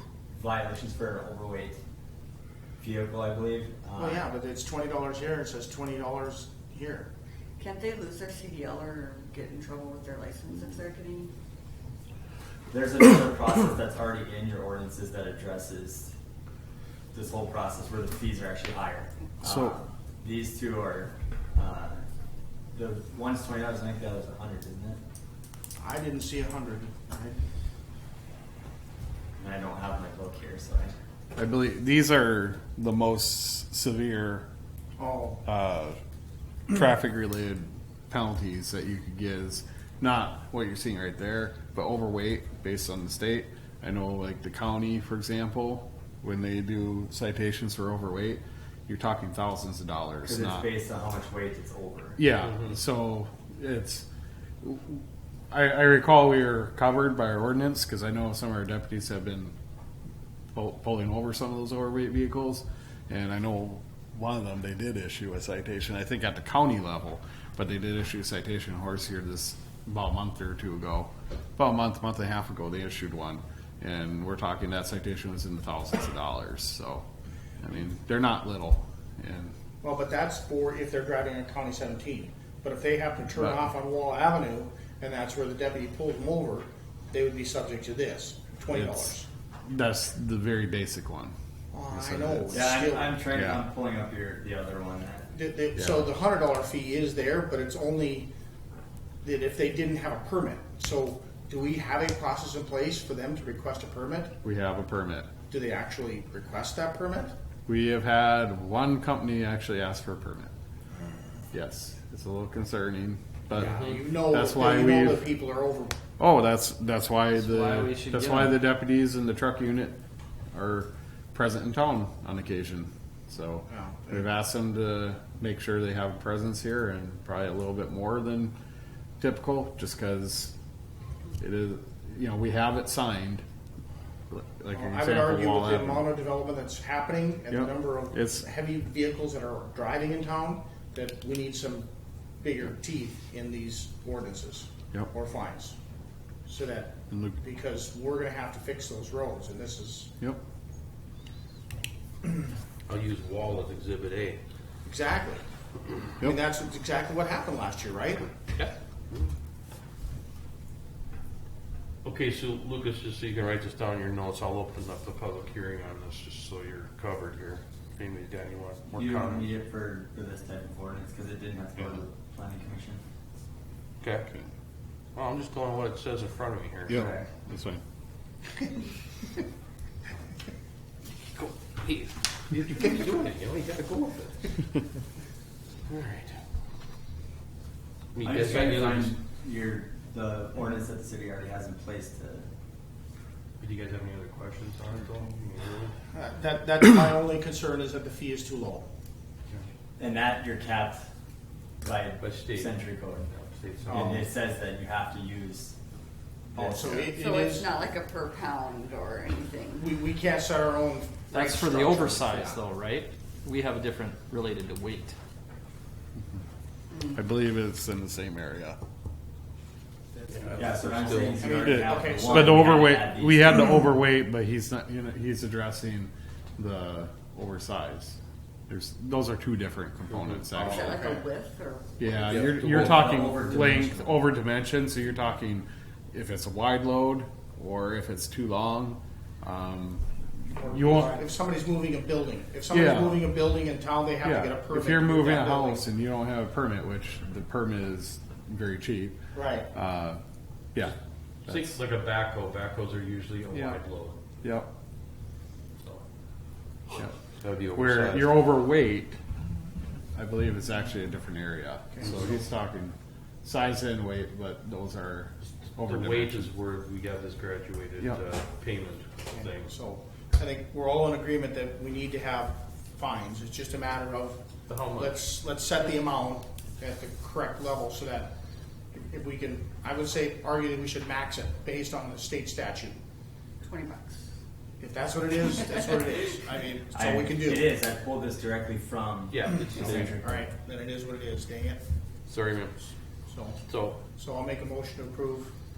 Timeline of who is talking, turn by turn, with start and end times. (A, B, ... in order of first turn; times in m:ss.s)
0:00.3-0:01.8 A
0:02.8-0:04.2 A
0:04.0-0:07.1 B
0:07.6-0:11.3 C
0:12.7-0:16.1 A
0:17.1-0:22.0 A
0:19.4-0:19.8 D
0:22.7-0:25.0 A
0:25.8-0:27.4 B
0:29.4-0:31.0 A
0:31.4-0:34.5 D
0:35.0-0:35.4 B
0:35.4-0:36.0 D
0:36.7-0:50.7 D
0:50.2-0:52.2 A
0:52.2-0:54.1 D
0:54.6-0:59.6 D
1:00.5-1:17.0 D
1:17.6-1:19.5 D
1:19.8-1:29.3 B
1:23.3-1:23.6 D
1:28.7-1:29.1 D
1:29.6-1:31.4 D
1:31.7-1:33.2 B
1:31.9-1:32.7 D
1:32.5-1:35.3 A
1:33.3-1:33.6 D
1:35.3-1:38.3 B
1:35.8-1:36.1 D
1:39.2-1:44.3 B
1:44.4-1:45.3 D
1:45.5-1:47.3 B
1:47.7-1:50.5 D
1:51.0-1:51.4 B
1:51.5-1:55.3 D
1:53.5-1:55.9 B
1:56.2-2:00.0 D
1:57.3-1:58.6 E
2:00.5-2:08.6 D
2:03.7-2:04.2 B
2:09.2-2:10.5 D
2:11.4-2:13.4 D
2:14.3-2:16.1 D
2:14.7-2:21.9 B
2:17.5-2:18.5 D
2:22.4-2:25.8 B
2:26.5-2:30.1 B
2:27.1-2:27.4 D
2:32.9-2:34.4 F
2:34.8-2:35.4 B
2:36.2-2:38.3 B
2:38.5-2:39.3 F
2:42.0-2:49.6 F
2:49.0-2:53.0 A
2:54.0-2:54.3 F
2:55.2-2:57.0 F
2:56.9-2:57.8 D
2:56.9-2:57.3 A
3:01.4-3:04.6 F
3:05.9-3:06.4 F
3:08.1-3:09.2 F
3:08.2-3:12.5 A
3:13.6-3:16.0 F
3:16.1-3:18.9 B
3:20.0-3:21.1 A
3:21.8-3:23.3 A
3:22.2-3:22.8 F
3:23.3-3:24.3 F
3:23.8-3:24.3 B
3:23.9-3:25.8 A
3:26.5-3:27.1 A
3:26.6-3:27.7 B
3:27.2-3:29.9 C
3:29.8-3:32.6 B
3:31.3-3:35.2 E
3:37.1-3:38.8 D
3:40.3-3:41.5 F
3:40.6-3:43.7 A
3:41.1-3:42.8 B
3:41.6-3:48.2 D
3:48.7-3:51.1 D
3:50.1-3:50.9 F
3:50.7-3:51.2 B
3:50.7-3:52.4 C
3:52.0-4:01.2 D
3:52.3-3:53.6 F
3:52.5-3:54.2 A
4:00.5-4:05.8 B
4:02.7-4:03.3 D
4:04.2-4:09.2 D
4:09.3-4:09.7 B
4:09.7-4:10.2 D
4:11.4-4:14.2 F
4:11.5-4:11.8 D
4:13.5-4:13.8 D
4:14.4-4:14.7 D
4:15.8-4:16.0 F
4:17.4-4:18.4 F
4:17.7-4:19.2 D
4:20.1-4:26.5 D
4:21.9-4:22.2 B
4:25.7-4:29.7 F
4:29.3-4:34.4 B
4:34.7-4:35.2 F
4:35.0-4:38.3 B
4:39.0-4:43.0 B
4:43.6-4:44.2 C
4:44.8-4:47.8 B
4:46.9-4:50.5 A
4:49.3-4:50.1 F
4:49.6-4:51.8 B
4:52.3-4:52.9 F
4:53.3-4:53.6 B
4:53.7-4:54.0 F
4:54.2-4:55.5 B